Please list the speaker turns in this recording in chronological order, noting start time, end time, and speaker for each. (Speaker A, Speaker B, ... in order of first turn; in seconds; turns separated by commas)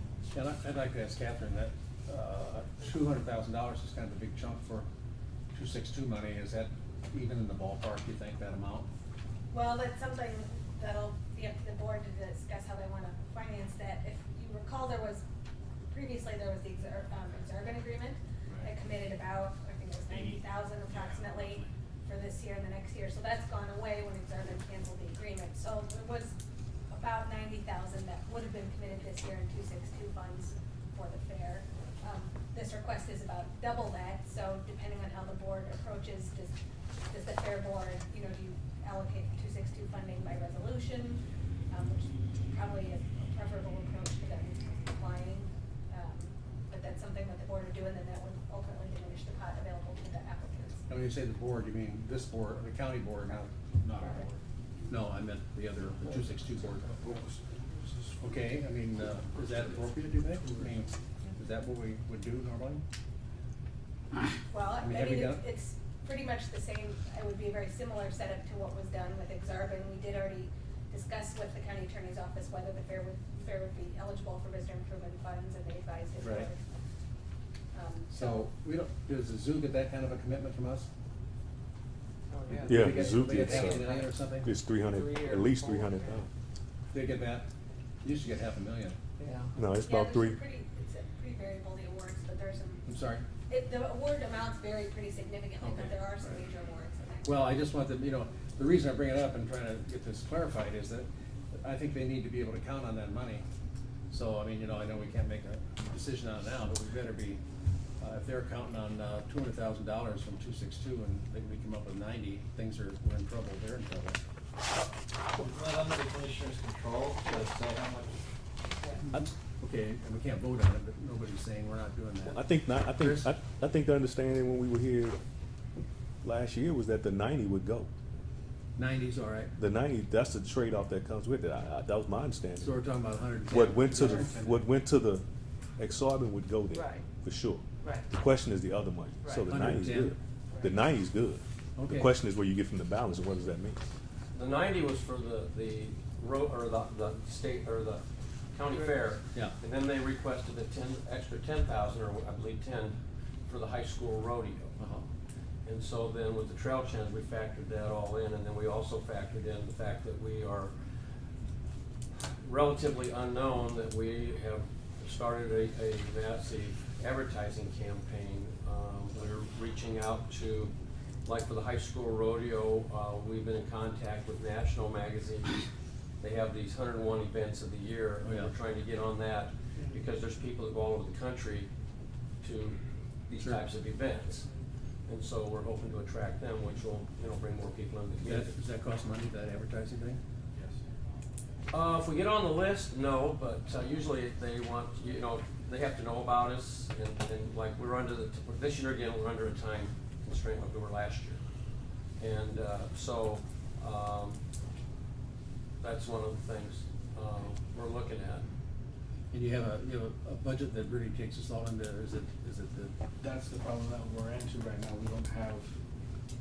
Speaker A: 0.3-4.9, Speaker A: 5.5-8.9, Speaker B: 9.5-15.2, Speaker B: 15.9-26.4, Speaker C: 20.1-21.7, Speaker B: 26.9-36.6, Speaker B: 37.1-41.2, Speaker B: 41.7-50.9, Speaker A: 50.9-54.2, Speaker A: 54.9-56.9, Speaker D: 57.0-57.4, Speaker A: 58.2-62.8, Speaker B: 64.5-76.6, Speaker A: 64.8-65.5, Speaker A: 76.2-76.5, Speaker B: 77.7-78.5, Speaker A: 78.1-80.9, Speaker E: 82.3-84.2, Speaker A: 82.5-84.5, Speaker F: 82.7-83.9, Speaker F: 84.4-86.3, Speaker E: 84.9-86.2, Speaker A: 86.9-87.5, Speaker A: 88.0-89.0, Speaker E: 89.2-89.5, Speaker F: 89.5-90.4, Speaker B: 89.7-97.6, Speaker A: 92.9-93.3, Speaker A: 95.6-96.4, Speaker A: 97.2-103.5, Speaker A: 104.1-107.4, Speaker A: 108.0-114.2, Speaker C: 115.3-118.2, Speaker A: 119.1-123.3, Speaker F: 122.2-125.2, Speaker F: 126.2-127.9, Speaker A: 128.8-129.5, Speaker F: 129.6-132.8, Speaker A: 132.6-134.7, Speaker F: 133.5-135.2, Speaker F: 135.8-143.8, Speaker E: 136.7-137.0, Speaker E: 137.8-138.1, Speaker E: 139.2-139.5, Speaker A: 139.5-140.2, Speaker A: 141.8-142.1, Speaker G: 144.3-154.8, Speaker E: 148.7-149.1, Speaker A: 154.8-155.1, Speaker G: 155.7-160.7, Speaker G: 162.4-170.7, Speaker G: 171.2-175.6, Speaker G: 176.2-181.7, Speaker A: 178.2-178.5, Speaker G: 182.4-184.5, Speaker G: 185.1-188.6, Speaker A: 188.2-190.2, Speaker G: 191.7-201.4, Speaker G: 202.2-204.4, Speaker G: 205.8-208.5, Speaker A: 209.3-212.9, Speaker D: 213.2-215.7